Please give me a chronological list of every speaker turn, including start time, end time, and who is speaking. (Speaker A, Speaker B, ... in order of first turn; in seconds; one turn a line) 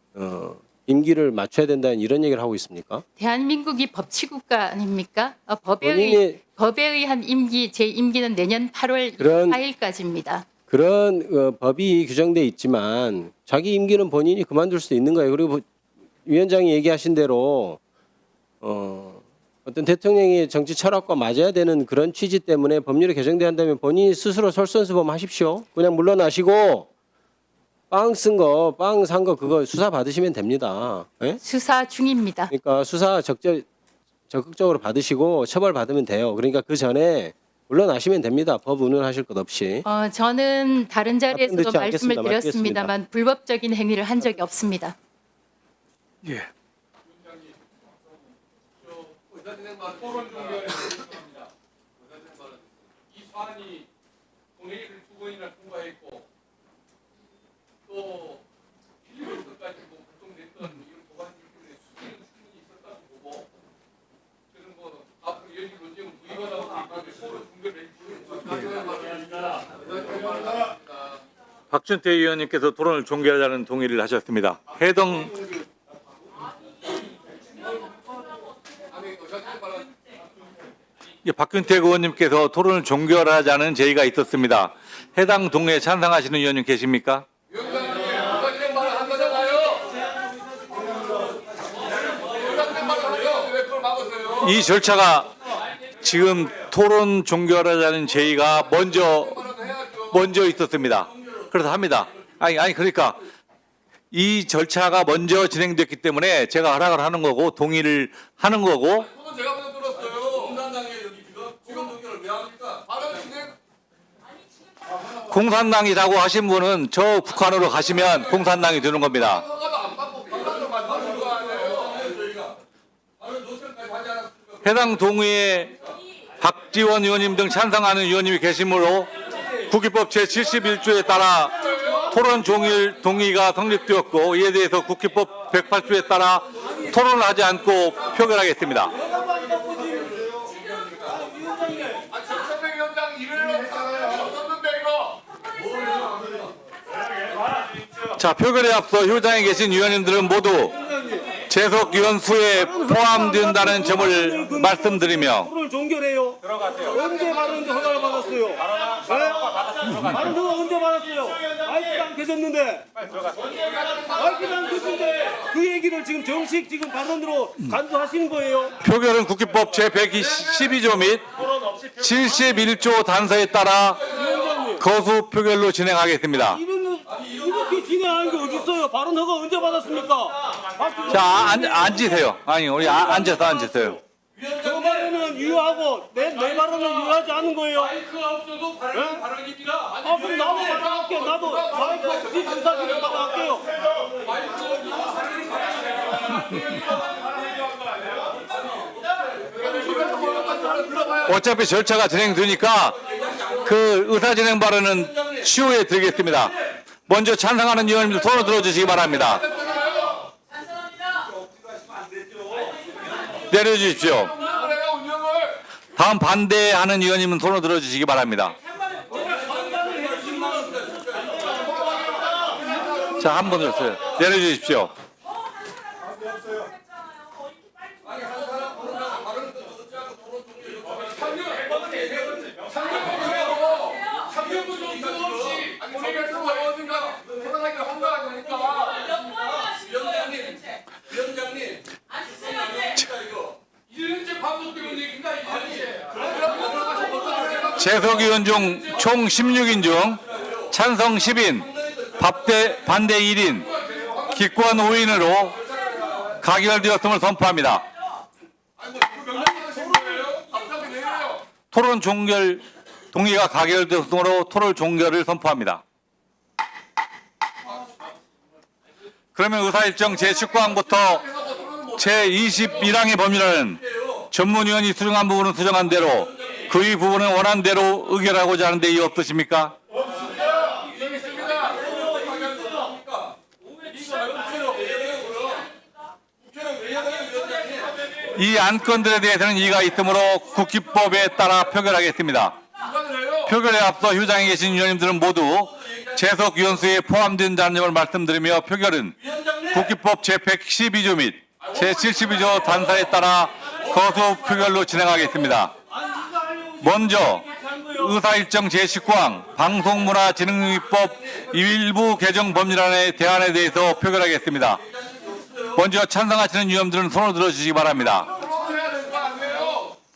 Speaker A: 0.1-3.0
Speaker B: 3.2-10.5
Speaker A: 5.8-6.4
Speaker A: 9.2-9.6
Speaker A: 10.7-15.7
Speaker A: 16.3-17.8
Speaker A: 18.6-26.9
Speaker A: 27.9-31.4
Speaker B: 31.4-32.5
Speaker A: 32.5-33.7
Speaker A: 34.3-39.9
Speaker B: 39.9-45.0
Speaker A: 41.3-42.9
Speaker C: 46.2-46.5
Speaker D: 49.4-51.3
Speaker D: 53.4-53.8
Speaker D: 54.7-56.2
Speaker D: 59.3-60.2
Speaker D: 60.9-63.4
Speaker D: 65.2-68.3
Speaker D: 68.9-69.2
Speaker C: 71.7-75.3
Speaker D: 79.2-79.7
Speaker C: 81.2-87.3
Speaker D: 88.4-89.8
Speaker D: 92.7-94.2
Speaker C: 94.3-95.3
Speaker C: 96.0-103.2
Speaker C: 104.1-109.1
Speaker D: 109.6-110.5
Speaker D: 113.0-113.5
Speaker C: 115.2-119.5
Speaker D: 119.8-121.9
Speaker C: 124.6-125.7
Speaker C: 126.4-138.9
Speaker E: 139.0-142.1
Speaker D: 142.3-145.2
Speaker C: 148.1-150.8
Speaker E: 150.8-151.4
Speaker C: 151.5-155.5
Speaker E: 152.9-168.8
Speaker C: 159.9-160.2
Speaker C: 168.8-174.1
Speaker E: 174.2-174.8
Speaker C: 174.8-176.6
Speaker E: 176.7-181.8
Speaker C: 181.1-184.0
Speaker E: 184.4-188.1
Speaker E: 188.8-194.0
Speaker E: 199.9-201.0
Speaker C: 201.1-203.0
Speaker C: 203.6-206.6
Speaker C: 207.1-209.6
Speaker C: 213.5-214.5
Speaker D: 214.9-215.5
Speaker C: 216.0-218.6
Speaker E: 219.0-222.0
Speaker C: 223.1-224.9
Speaker D: 234.6-235.8
Speaker D: 236.3-239.1
Speaker C: 242.7-243.1
Speaker D: 244.2-246.0
Speaker D: 247.1-247.5
Speaker C: 247.6-253.7
Speaker C: 254.3-255.6
Speaker C: 256.3-257.9
Speaker D: 258.9-259.8
Speaker E: 259.5-260.4
Speaker D: 260.5-261.3
Speaker C: 261.7-265.8
Speaker C: 269.4-271.3
Speaker C: 271.9-279.8
Speaker E: 281.9-282.4
Speaker E: 284.2-284.7
Speaker C: 288.3-292.6
Speaker C: 293.3-305.7
Speaker E: 306.2-306.6
Speaker C: 306.8-314.8
Speaker C: 315.7-318.4
Speaker D: 318.7-319.9